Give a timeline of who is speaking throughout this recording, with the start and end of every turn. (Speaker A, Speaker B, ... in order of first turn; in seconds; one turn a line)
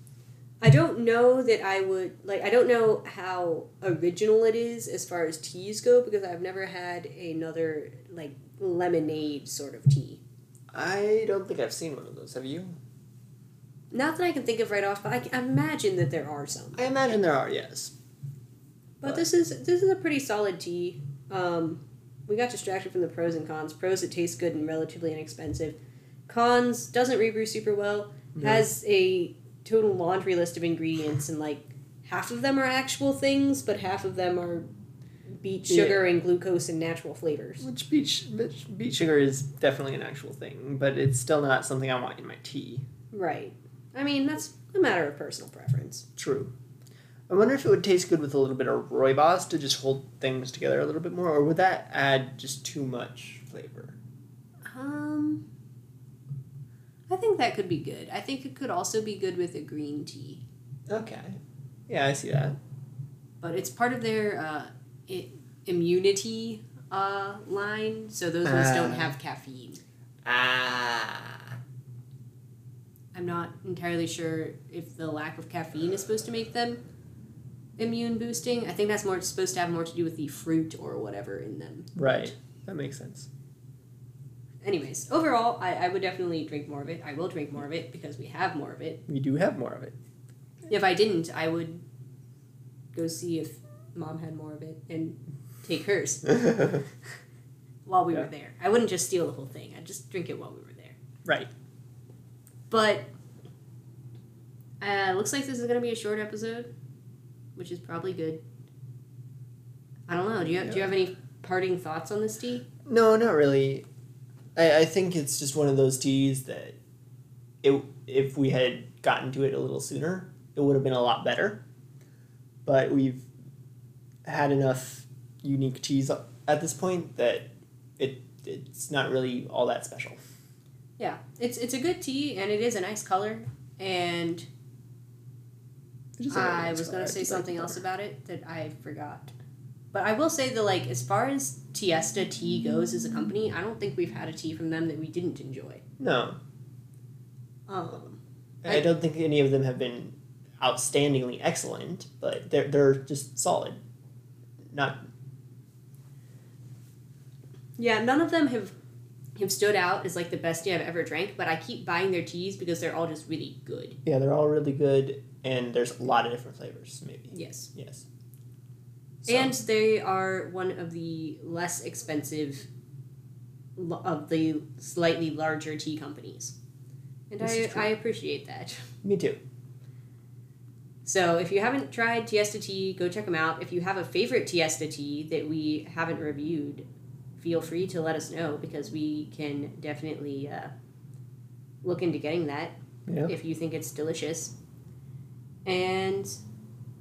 Speaker A: 0.6-10.2
Speaker B: 10.7-12.8
Speaker A: 13.9-16.9
Speaker B: 16.8-17.9
Speaker A: 19.0-25.8
Speaker A: 26.3-34.7
Speaker B: 28.4-28.7
Speaker A: 35.4-37.7
Speaker B: 35.7-36.1
Speaker B: 37.6-42.9
Speaker A: 43.1-46.1
Speaker B: 46.2-46.5
Speaker B: 47.3-54.0
Speaker A: 54.6-55.5
Speaker A: 57.1-60.4
Speaker B: 60.9-62.6
Speaker A: 63.4-69.8
Speaker B: 68.4-69.2
Speaker B: 70.2-71.5
Speaker A: 73.1-76.8
Speaker A: 77.8-82.3
Speaker B: 82.0-83.3
Speaker A: 84.6-89.0
Speaker B: 89.1-90.0
Speaker A: 90.7-91.8
Speaker A: 92.9-96.8
Speaker A: 97.9-101.0
Speaker A: 102.7-103.1
Speaker A: 104.8-106.7
Speaker A: 107.6-108.4
Speaker A: 110.1-112.7
Speaker B: 110.6-110.9
Speaker B: 112.9-113.9
Speaker B: 114.6-116.8
Speaker B: 117.6-121.6
Speaker B: 122.7-123.3
Speaker B: 124.2-127.5
Speaker B: 128.0-130.2
Speaker A: 131.0-134.5
Speaker B: 136.2-137.8
Speaker A: 136.3-139.3
Speaker A: 139.9-145.8
Speaker B: 146.0-146.4
Speaker A: 147.7-148.9
Speaker B: 148.6-153.8
Speaker B: 154.7-155.1
Speaker A: 157.8-158.8
Speaker A: 159.4-164.0
Speaker B: 164.1-168.1
Speaker A: 167.3-167.7
Speaker B: 169.2-169.6
Speaker A: 169.3-172.7
Speaker A: 173.8-176.6
Speaker A: 177.3-178.8
Speaker B: 177.4-177.9
Speaker B: 179.0-179.4
Speaker A: 181.1-186.9
Speaker A: 187.4-190.7
Speaker A: 191.8-194.6
Speaker B: 193.1-193.3
Speaker A: 195.7-196.4